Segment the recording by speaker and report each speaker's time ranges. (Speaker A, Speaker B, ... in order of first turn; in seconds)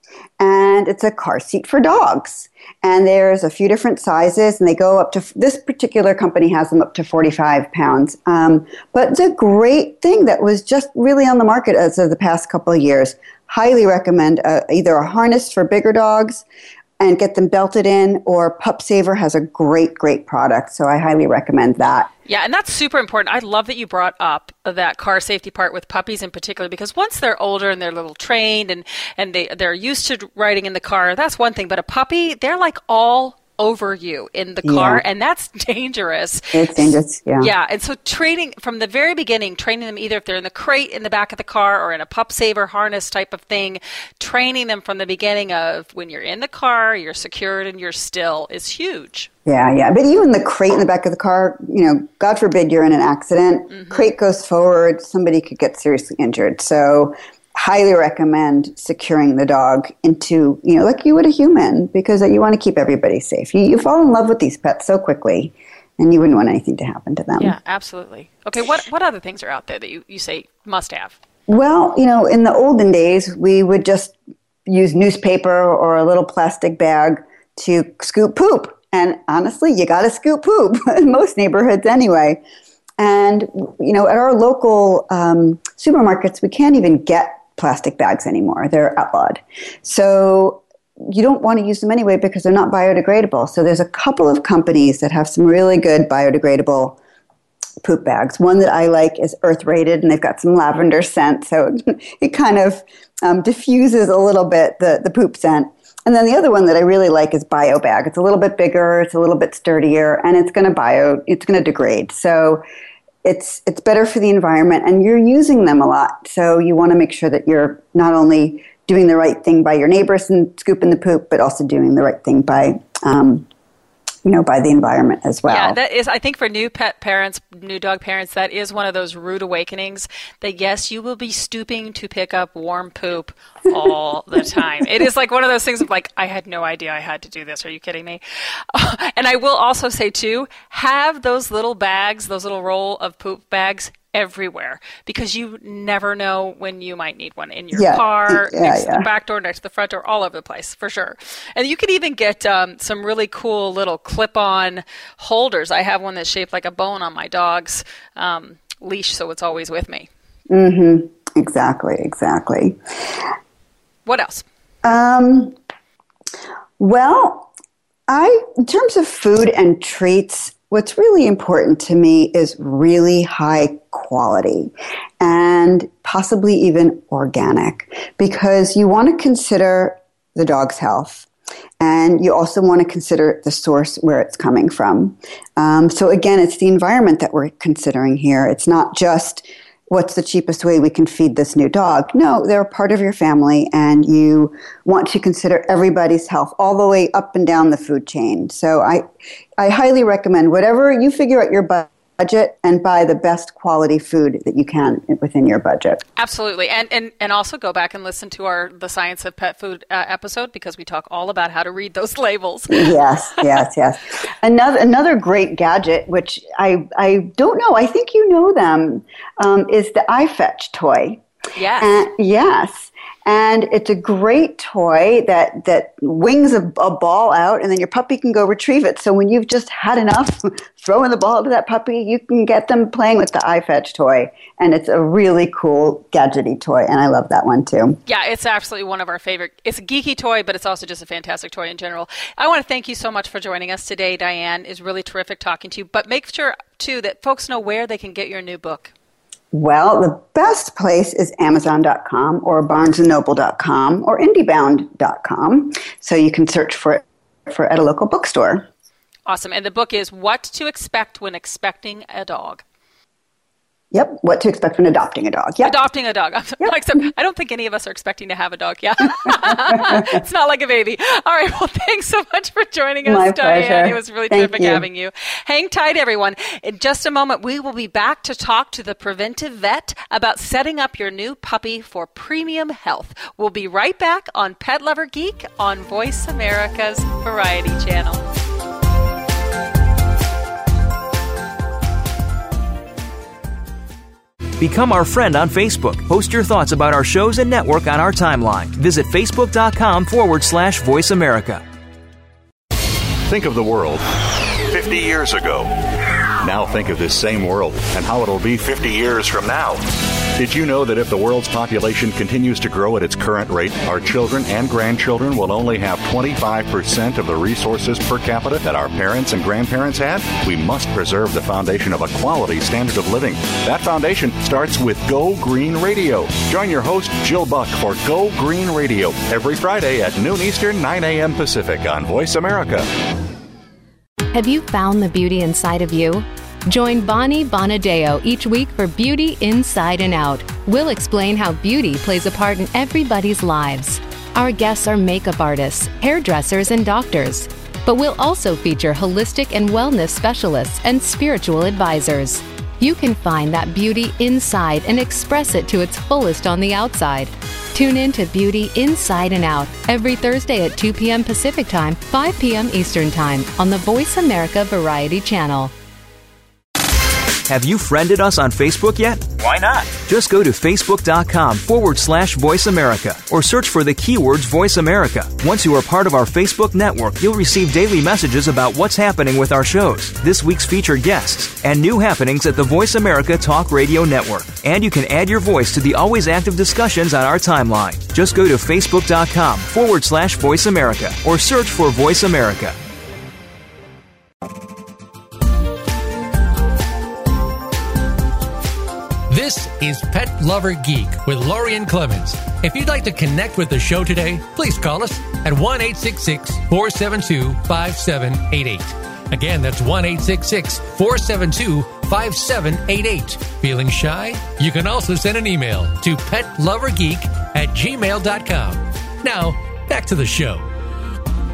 Speaker A: 0.4-16.4, 17.0-22.1, 34.6-35.0, 36.5-37.5, 49.5-67.5, 71.5-82.4, 83.0-97.0, 97.8-112.6, 113.2-123.5, 124.2-125.8, 147.7-149.1, 160.5-162.8, 164.8-165.6, 166.8-167.5, 168.1-181.3, 181.8-199.1, 199.6-206.0, 212.7-221.2, 221.8-238.0, 249.5-258.7, 263.9-265.8, 269.5-270.1, 273.1-274.9
Speaker B: 22.3-49.3, 53.7-54.1, 67.4-71.2, 125.5-138.2, 138.7-160.1, 164.1-164.5, 206.2-212.9, 221.6-222.0, 238.1-248.9, 259.3-262.6, 265.6-288.2
Speaker C: 294.6-301.6, 367.5-392.8
Speaker D: 303.3-305.9, 306.4-332.9
Speaker E: 334.3-365.7
Speaker F: 399.3-420.7